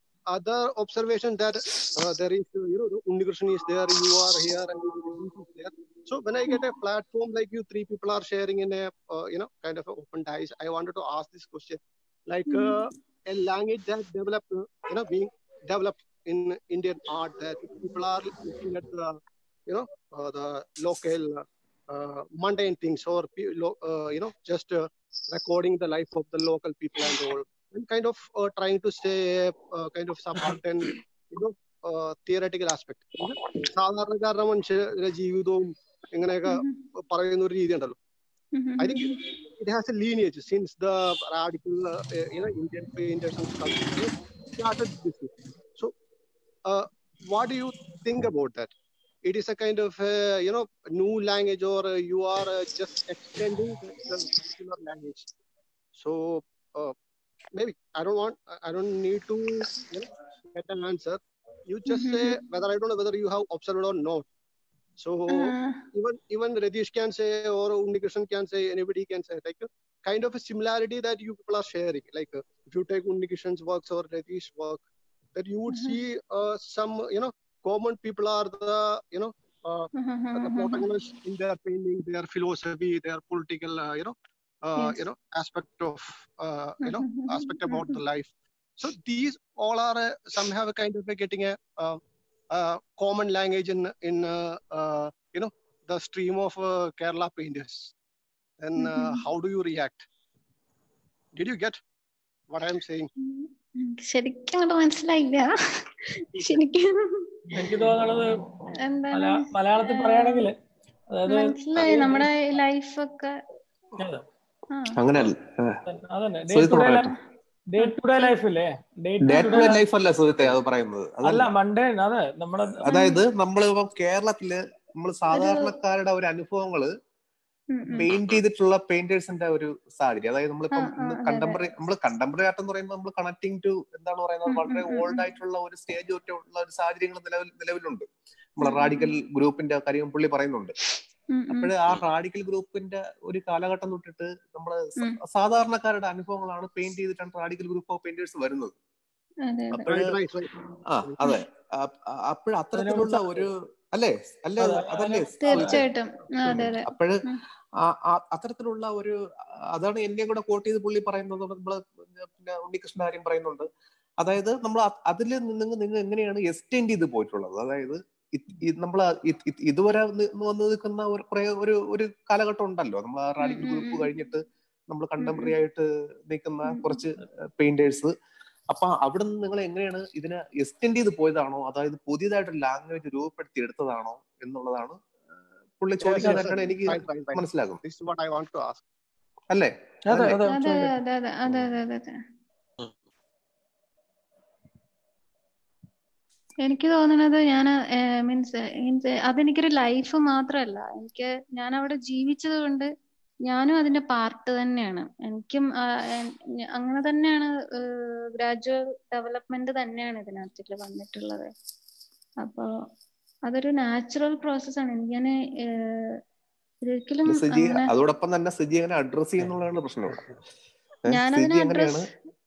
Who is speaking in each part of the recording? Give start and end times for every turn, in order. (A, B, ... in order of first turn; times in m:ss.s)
0:00.3-0:19.1 A
0:12.5-0:12.8 B
0:19.7-0:38.0 A
0:36.5-0:36.8 B
0:38.6-0:39.2 B
0:38.8-0:45.9 A
0:46.7-0:48.7 A
0:49.2-0:55.3 A
0:56.0-0:56.9 A
0:57.6-1:04.2 A
1:01.9-1:02.3 B
1:05.0-1:14.8 A
1:05.3-1:05.8 B
1:15.3-1:24.1 A
1:15.7-1:16.0 B
1:19.9-1:20.8 B
1:24.6-1:32.0 A
1:26.8-1:28.0 B
1:32.5-1:37.9 A
1:38.6-1:40.0 A
1:38.8-1:39.2 B
1:41.4-1:41.8 A
1:42.5-1:43.1 A
1:43.2-1:47.3 B
1:47.5-1:48.4 C
1:48.8-1:50.5 B
1:49.1-1:50.6 C
1:51.1-1:52.3 C
1:51.3-1:53.3 B
1:54.0-1:54.2 C
1:55.0-1:55.8 D
1:55.9-1:57.1 C
1:56.5-1:57.1 D
1:57.7-1:59.8 C
1:57.8-1:58.3 B
1:59.3-2:01.5 D
1:59.3-1:59.7 B
2:01.2-2:02.9 C
2:02.8-2:03.2 B
2:02.9-2:06.9 D
2:05.3-2:05.7 B
2:07.7-2:08.1 B
2:08.0-2:18.1 D
2:10.7-2:11.6 B
2:14.5-2:15.3 B
2:18.6-2:20.7 D
2:18.6-2:19.1 B
2:21.3-2:21.7 B
2:21.5-2:28.7 D
2:29.4-2:29.9 B
2:29.9-2:30.1 D
2:29.9-2:30.5 A
2:30.9-2:35.8 D
2:32.7-2:33.5 C
2:34.6-2:35.8 C
2:35.4-2:37.4 B
2:36.4-2:37.2 D
2:37.9-2:39.2 D
2:39.7-2:43.7 D
2:44.2-2:58.1 D
2:53.4-2:54.1 B
2:55.2-2:55.6 B
2:56.6-2:57.0 B
2:58.7-3:05.0 D
3:05.8-3:07.8 D
3:06.0-3:08.8 A
3:06.1-3:06.5 C
3:09.5-3:10.5 D
3:10.1-3:10.8 C
3:10.5-3:12.1 B
3:16.6-3:22.9 B
3:23.5-3:31.5 B
3:32.4-3:32.7 B
3:33.4-3:36.2 B
3:36.9-3:37.9 B
3:37.3-3:40.2 D
3:41.1-3:42.1 B
3:41.1-3:42.0 D